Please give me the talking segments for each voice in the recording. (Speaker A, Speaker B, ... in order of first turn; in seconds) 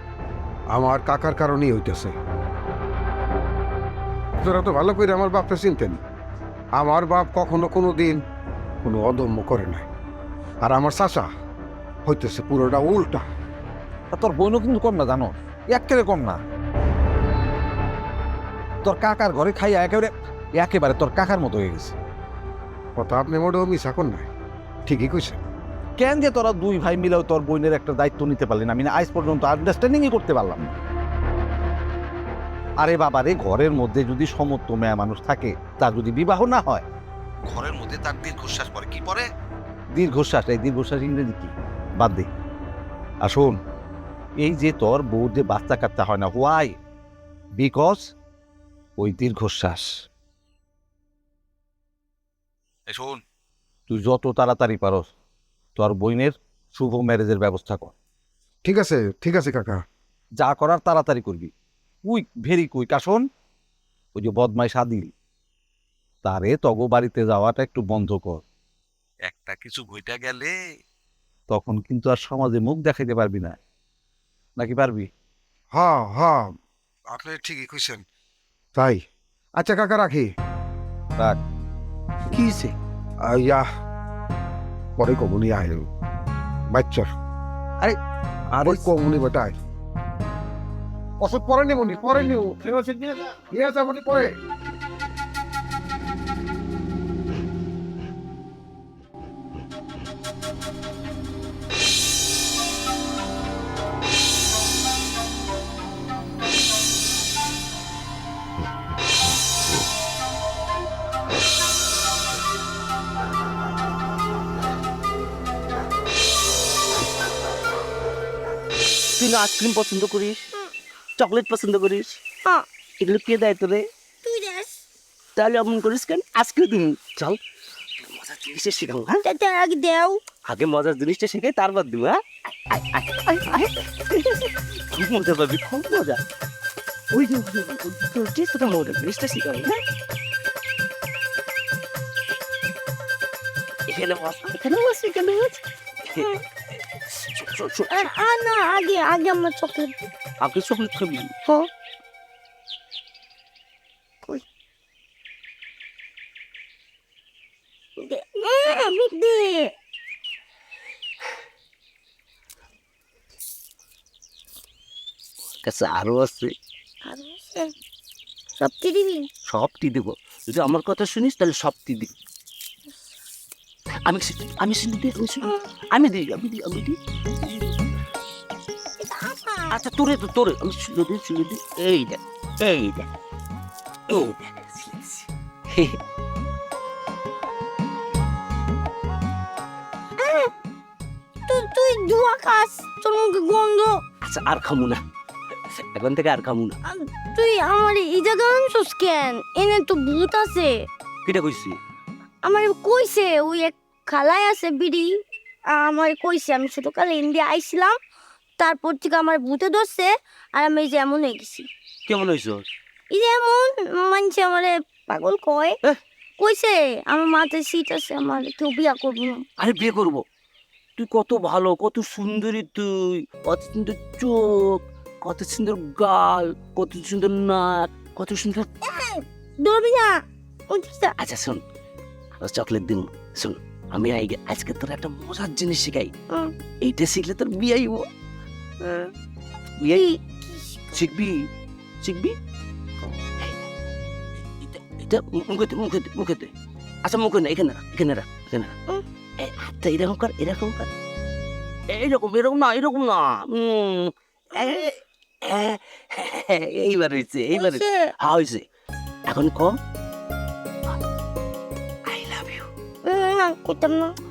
Speaker A: 0.7-2.1, 4.4-6.0, 6.8-8.2, 8.8-9.9, 10.6-11.3, 12.1-13.2, 23.0-24.3, 24.9-25.4, 58.6-59.8, 75.7-76.5, 77.1-78.0, 78.8-79.0, 79.6-80.3, 83.3-83.6, 85.0-85.9, 86.7-87.1, 88.6-89.5, 91.2-92.5, 93.5-94.3
Speaker B: 14.1-16.4, 18.8-21.9, 26.0-30.7, 32.8-36.9, 37.5-39.2, 39.9-42.3, 43.2-43.6, 44.4-46.8, 47.6-48.0, 49.0-49.9, 52.9-53.2, 53.9-55.1, 55.8-57.9, 60.4-61.5, 62.0-63.2, 64.2-65.1, 66.2-68.4, 69.3-70.5, 71.5-73.6, 74.6-75.1
Speaker C: 82.3-82.7, 119.2-120.5, 121.2-122.2, 123.0-123.9, 125.3-127.4, 128.1-129.2, 130.4-136.2, 137.1-139.8, 143.9-145.6, 147.1-147.9, 150.4-151.3, 165.6-166.5, 169.5-172.1, 174.1-177.0, 179.7-183.1, 184.1-186.0, 194.2-195.0, 195.8-196.8, 201.2-201.8, 212.1-212.6, 219.6-220.2, 221.0-228.7, 231.2-231.6, 232.4-236.1, 236.8-238.1, 240.9-241.5, 242.0-242.4, 244.6-246.5, 247.0-248.8, 249.4-250.9, 251.9-258.7, 259.3-259.8, 262.1-262.7
Speaker D: 124.2-124.8, 129.3-130.2, 147.9-150.1, 158.0-159.7, 167.1-167.7, 168.6-169.3, 179.0-179.7, 190.2-190.5, 191.5-194.0, 196.9-200.8, 202.4-205.2, 205.7-208.0, 208.6-211.7, 213.1-215.8, 216.4-219.4, 228.8-231.2, 238.8-239.1, 239.9-240.9, 257.5-258.1, 263.1-264.1